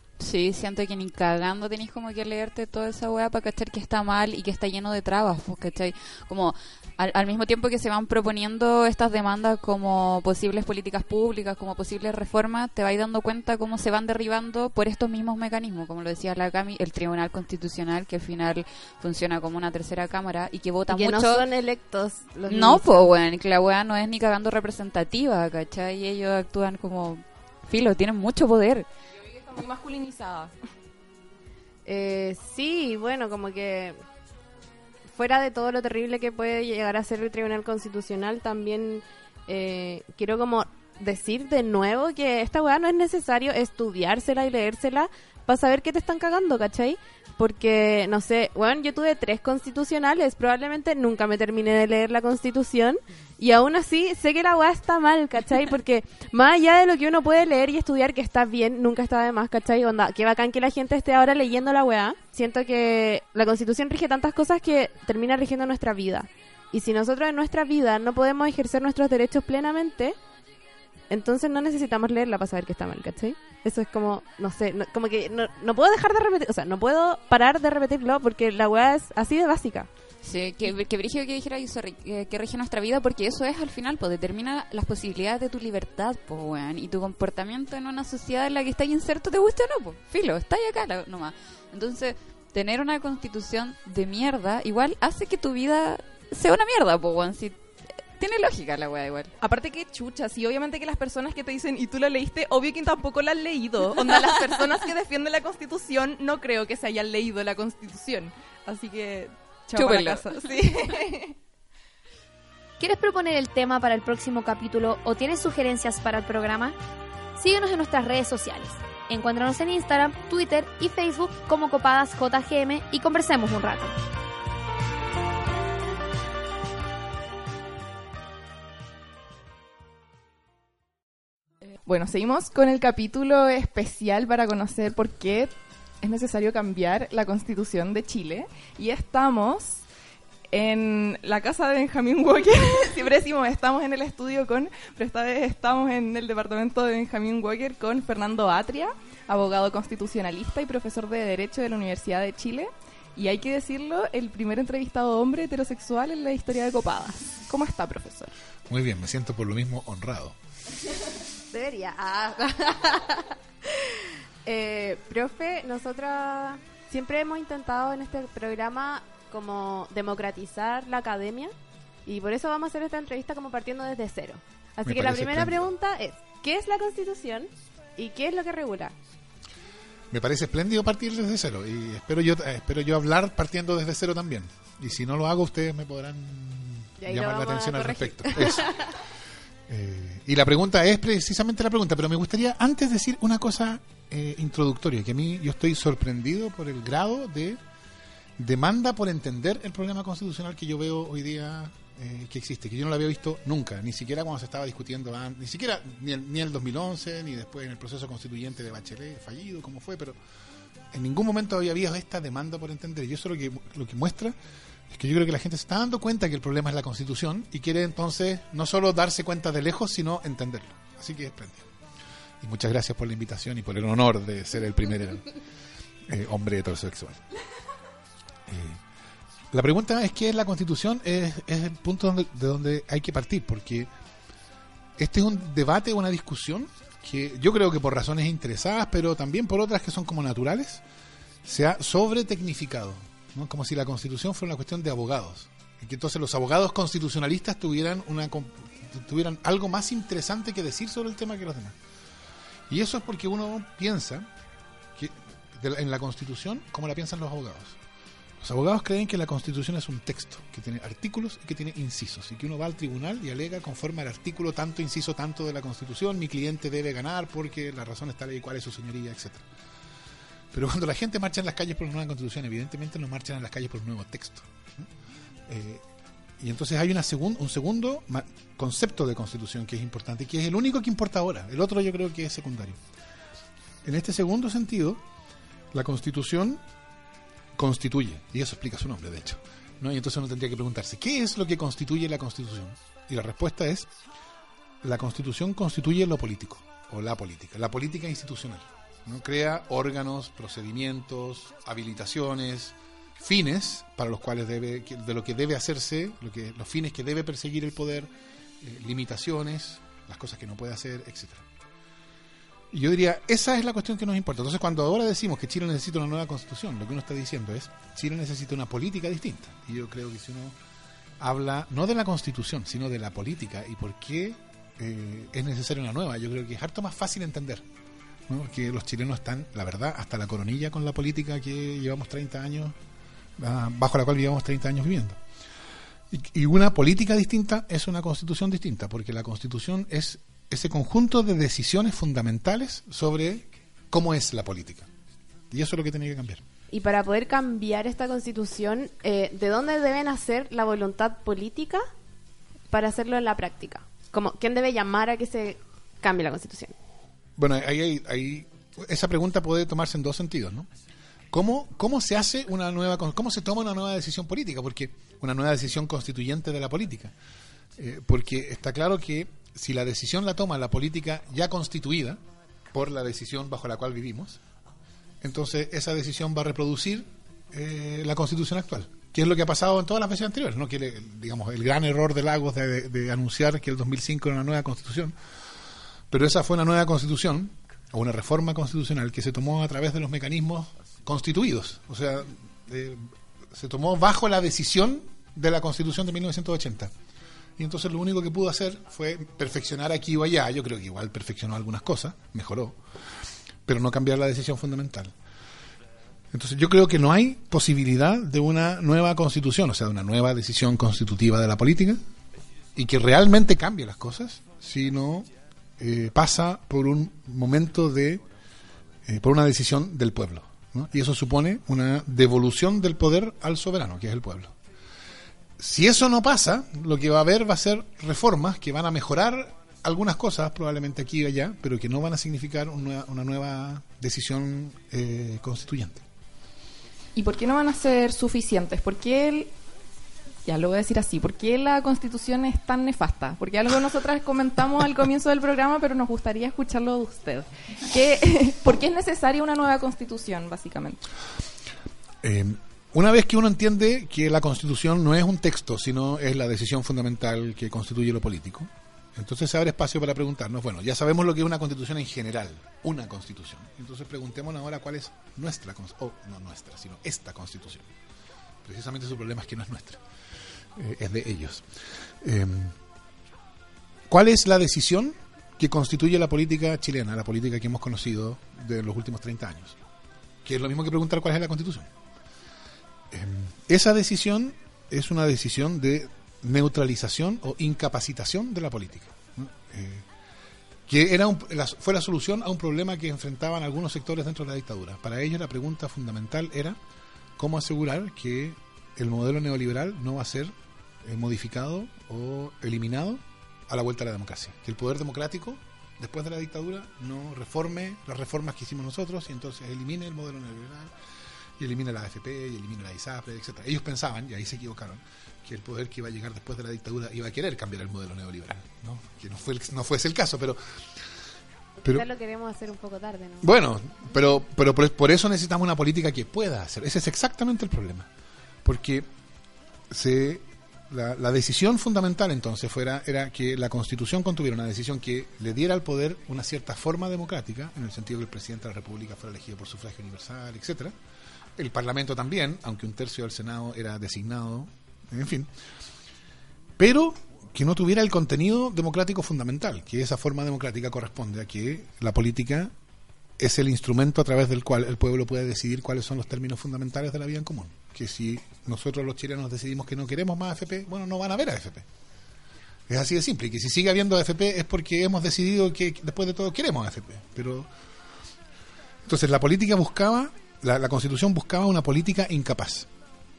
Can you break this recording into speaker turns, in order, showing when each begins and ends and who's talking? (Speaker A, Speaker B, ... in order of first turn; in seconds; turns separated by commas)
Speaker A: 0.2-21.5, Speaker B: 20.9-23.1, Speaker A: 22.5-28.9, Speaker C: 29.3-30.5, Speaker B: 31.9-34.0, Speaker B: 35.1-70.2, Speaker B: 71.1-79.9, Speaker A: 80.2-97.6, Speaker A: 98.2-99.3, Speaker C: 99.4-111.3, Speaker A: 104.0-104.7, Speaker A: 109.8-110.2, Speaker D: 112.8-116.8, Speaker D: 117.4-124.0, Speaker C: 131.9-139.8, Speaker C: 140.5-158.3, Speaker E: 158.7-160.4, Speaker B: 161.5-171.5, Speaker B: 172.1-178.9, Speaker E: 174.8-175.6, Speaker E: 180.1-188.9, Speaker B: 187.0-188.9, Speaker E: 189.7-197.6, Speaker E: 198.4-210.2, Speaker E: 210.9-214.4, Speaker E: 214.9-221.7, Speaker E: 222.4-225.3, Speaker E: 226.1-227.2, Speaker E: 228.5-228.8, Speaker E: 229.5-233.9, Speaker E: 235.0-240.8, Speaker E: 241.4-251.8, Speaker E: 252.7-254.3, Speaker E: 255.0-257.8, Speaker E: 258.4-269.5, Speaker E: 270.5-274.9, Speaker E: 275.5-275.8, Speaker E: 276.4-282.8, Speaker E: 283.8-285.0, Speaker E: 285.7-286.6, Speaker E: 287.6-293.9, Speaker E: 294.8-308.1, Speaker E: 308.6-311.4, Speaker E: 312.7-320.6, Speaker E: 321.2-327.6, Speaker E: 328.3-332.8, Speaker E: 333.4-335.2, Speaker E: 336.1-344.9, Speaker E: 345.5-346.4, Speaker B: 346.7-351.9, Speaker B: 352.7-356.8, Speaker E: 357.4-360.7, Speaker E: 361.3-367.1, Speaker E: 367.8-372.2, Speaker E: 372.7-374.4, Speaker E: 375.2-385.1, Speaker E: 386.1-396.9, Speaker E: 397.6-402.8, Speaker E: 403.7-405.1, Speaker E: 406.3-412.0, Speaker E: 412.8-418.2, Speaker E: 419.1-424.6, Speaker E: 425.6-436.0, Speaker C: 437.2-439.5, Speaker C: 440.5-451.0, Speaker E: 452.2-467.9, Speaker E: 468.6-470.0, Speaker E: 470.8-471.6, Speaker E: 472.2-472.8, Speaker E: 474.1-479.8, Speaker E: 480.4-481.9, Speaker E: 483.1-490.0, Speaker E: 490.9-496.8, Speaker E: 497.4-510.9, Speaker E: 511.6-520.6, Speaker B: 521.8-523.6, Speaker E: 523.4-528.1, Speaker E: 528.6-529.1, Speaker E: 529.9-541.0, Speaker E: 541.6-545.5, Speaker E: 546.8-552.7, Speaker E: 553.4-561.9, Speaker E: 562.9-567.7, Speaker E: 569.1-572.9